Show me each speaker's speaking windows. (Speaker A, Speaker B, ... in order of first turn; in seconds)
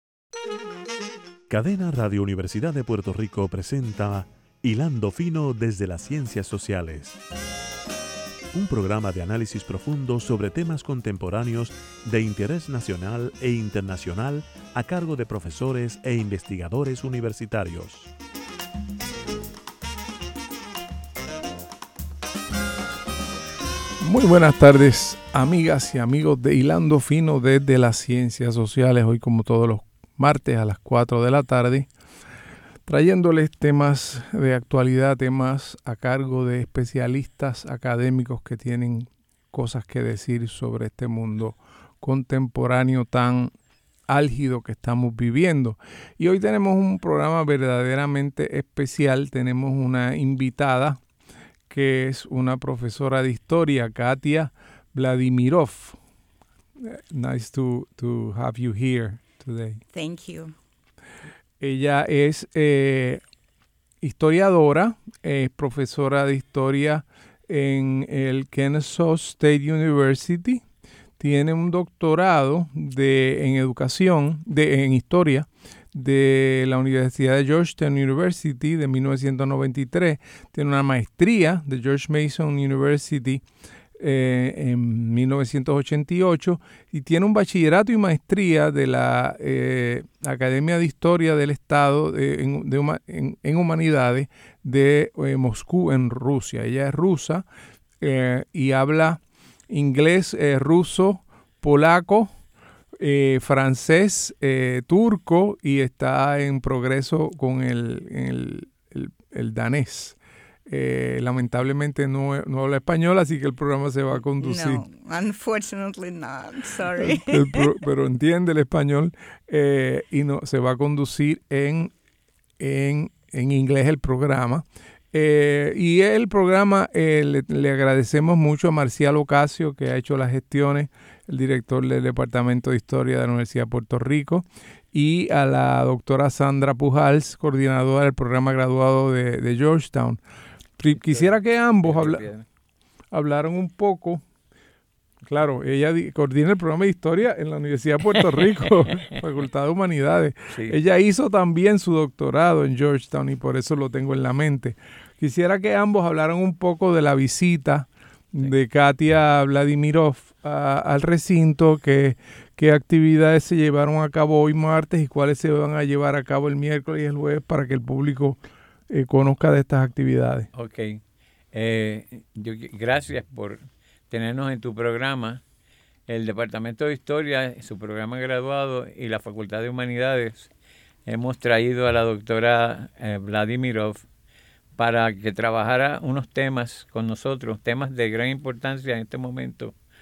Speaker A: 1.5-7.2, 8.5-18.1
Speaker B: 24.0-31.9, 32.9-43.5, 44.1-51.0, 51.7-56.0, 56.8-59.8, 61.6-63.2, 64.0-70.6, 71.2-83.4, 84.0-97.4, 98.0-102.3, 103.0-114.8, 117.0-121.9, 122.6-140.2, 140.8-142.2, 143.1-144.2, 145.2-170.5
Speaker C: 59.9-60.5, 114.4-117.7
Speaker D: 140.9-141.3, 141.8-142.4, 170.5-171.0, 171.5-175.4, 176.1-180.5, 181.1-184.1, 184.8-189.7